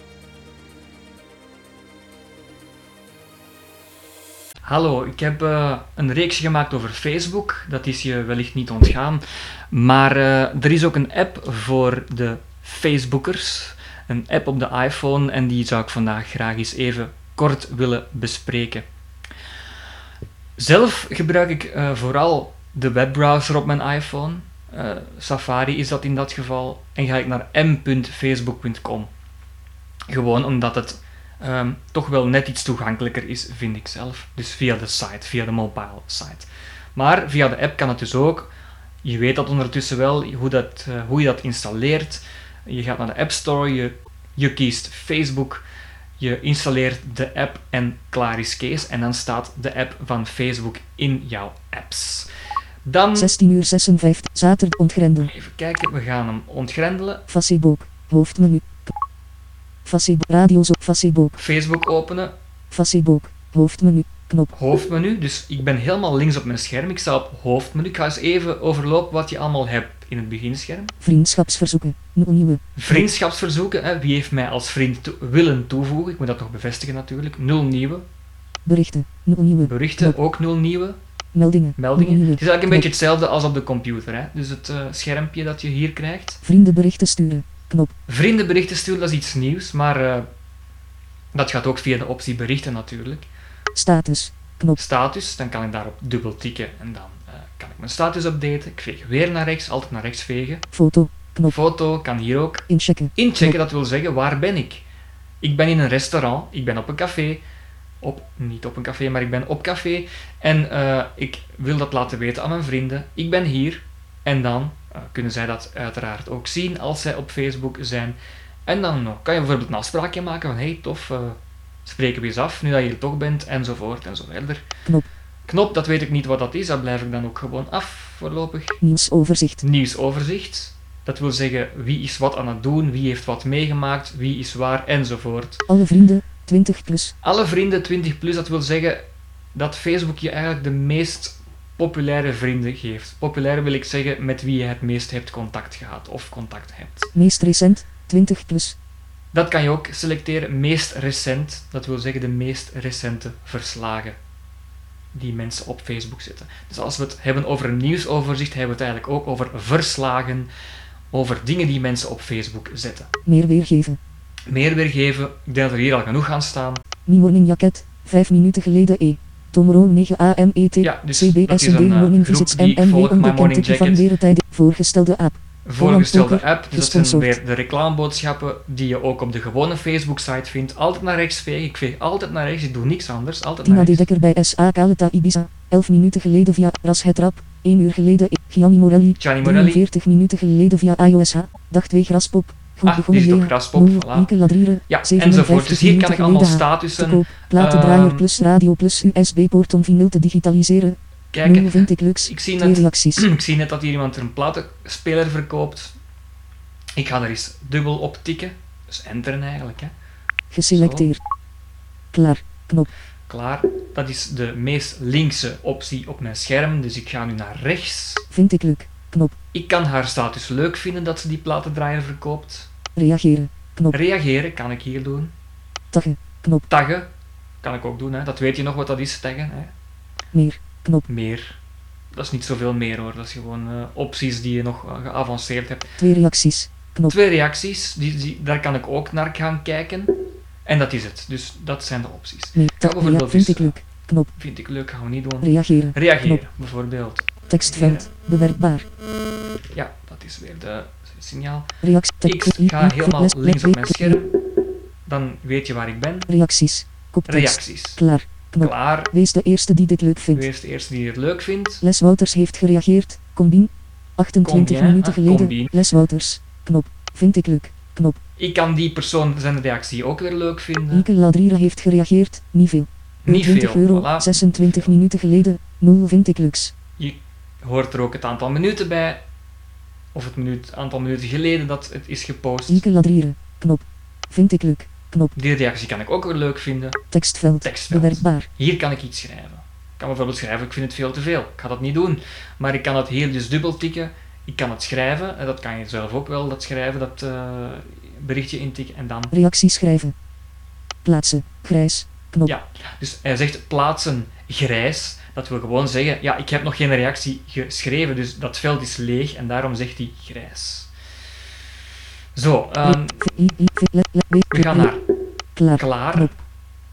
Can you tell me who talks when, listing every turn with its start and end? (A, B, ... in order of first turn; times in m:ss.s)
0:04.6-0:18.8 A
0:20.6-0:29.1 A
0:30.1-0:38.5 A
0:39.0-0:45.6 A
0:46.2-0:52.3 A
0:52.8-0:53.4 A
0:53.2-0:55.3 B
0:55.3-0:57.2 A
0:57.3-0:58.8 B
0:59.8-1:01.4 B
1:01.4-1:02.3 A
1:02.7-1:04.5 B
1:04.5-1:10.9 A
1:11.0-1:12.6 B
1:12.8-1:18.0 A
1:18.6-1:20.1 B
1:19.6-1:21.0 A
1:21.3-1:22.8 B
1:21.8-1:26.4 A
1:26.4-1:27.9 B
1:28.1-1:30.3 A
1:31.3-1:33.3 A
1:33.7-1:34.8 B
1:34.8-1:40.7 A
1:40.7-1:41.5 B
1:41.5-1:44.8 A
1:42.7-1:43.1 B
1:45.4-1:47.4 A
1:48.0-2:04.6 A
2:05.5-2:08.8 A
2:08.8-2:09.6 B
2:09.6-2:15.7 A
2:15.7-2:17.1 B
2:17.2-2:27.1 A
2:27.2-2:28.8 B
2:29.3-2:34.2 A
2:35.1-2:40.5 A
2:41.1-2:43.1 A
2:43.3-2:44.0 B
2:44.5-2:46.8 A
2:47.1-2:57.4 B
2:50.8-2:54.1 A
2:55.6-3:04.1 A
3:03.6-3:23.2 B
3:09.2-3:09.8 A
3:12.8-3:14.3 A
3:14.9-3:18.3 A
3:21.3-3:25.9 A
3:27.0-3:29.9 A
3:30.5-3:31.2 B
3:30.7-3:31.2 A
3:32.1-3:32.9 B
3:33.3-3:38.3 A
3:38.3-3:39.4 B
3:39.5-3:42.7 A
3:43.0-3:43.9 B
3:43.9-3:45.3 A
3:45.9-3:46.7 B
3:46.7-3:47.1 A
3:47.6-3:49.7 A
3:50.3-3:51.0 B
3:51.1-3:51.6 A
3:52.1-3:55.9 A
3:56.0-3:57.1 B
3:57.1-4:03.8 A
4:02.6-4:04.3 B
4:04.4-4:08.1 A
4:05.4-4:06.4 B
4:07.5-4:08.9 B
4:09.7-4:11.7 A
4:11.8-4:14.2 B
4:12.2-4:14.3 A
4:15.1-4:16.3 A
4:16.3-4:20.5 B
4:17.3-4:18.0 A
4:18.6-4:19.1 A
4:20.3-4:21.8 A
4:21.8-4:28.2 B
4:24.4-4:25.7 A
4:28.4-4:31.1 A
4:30.9-4:36.7 B
4:33.2-4:34.9 A
4:37.0-4:39.2 A
4:40.1-4:42.8 A
4:42.7-4:45.3 B
4:45.4-4:47.0 A
4:47.1-4:48.5 B
4:47.6-4:59.3 A
4:59.3-5:00.2 B
5:01.0-5:02.5 B
5:02.4-5:10.9 A
5:12.4-5:13.4 A
5:12.8-5:14.9 B
5:14.5-5:15.0 A
5:15.6-5:16.3 B
5:15.7-5:16.4 A